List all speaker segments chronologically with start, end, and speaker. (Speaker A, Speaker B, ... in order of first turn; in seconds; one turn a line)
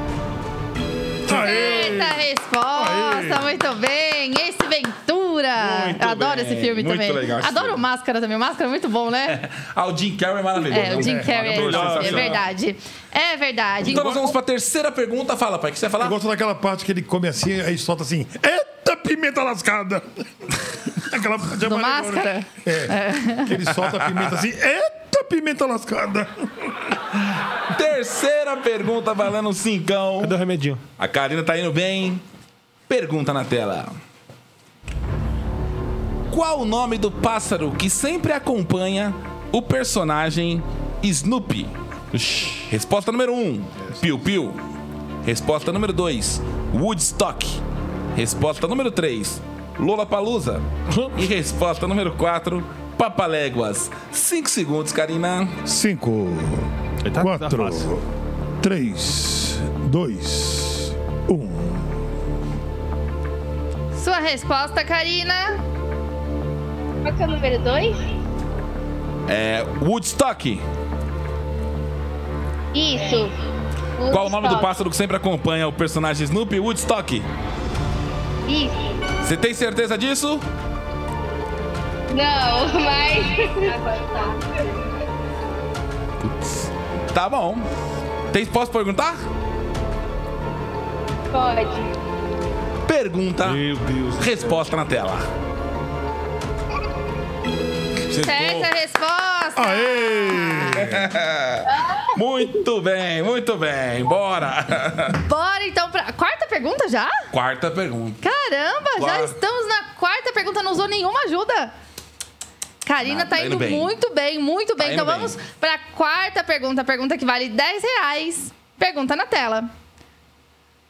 Speaker A: 1.2-3.5
Speaker B: 1.3-9.4
Speaker C: 5.6-7.8
Speaker C: 9.3-12.4
Speaker B: 10.7-14.3
Speaker A: 10.8-12.1
Speaker D: 11.4-12.4
Speaker C: 13.8-16.2
Speaker A: 16.0-26.9
Speaker B: 21.6-23.5
Speaker C: 27.6-30.4
Speaker D: 30.2-30.8
Speaker C: 31.0-32.2
Speaker C: 32.9-34.0
Speaker C: 36.3-41.7
Speaker D: 42.1-42.7
Speaker C: 42.7-44.6
Speaker C: 45.2-47.6
Speaker C: 48.1-55.6
Speaker A: 55.6-58.0
Speaker D: 57.0-57.9
Speaker A: 58.6-62.0
Speaker B: 63.9-65.6
Speaker E: 67.0-68.0
Speaker C: 69.3-70.6
Speaker E: 72.7-73.4
Speaker E: 74.0-74.7
Speaker C: 74.1-77.3
Speaker E: 78.5-79.0
Speaker C: 79.2-80.4
Speaker E: 82.1-84.6
Speaker C: 87.1-87.7
Speaker C: 88.3-89.2
Speaker E: 91.3-91.9
Speaker C: 92.8-95.3
Speaker D: 93.4-94.7
Speaker D: 98.1-98.7
Speaker B: 98.2-100.8
Speaker A: 99.5-101.1
Speaker C: 100.7-105.2
Speaker E: 101.7-102.1
Speaker B: 105.2-107.2
Speaker C: 107.3-108.2
Speaker B: 108.2-111.7
Speaker C: 109.0-109.3
Speaker B: 112.8-119.7
Speaker C: 113.0-113.9
Speaker C: 114.8-115.3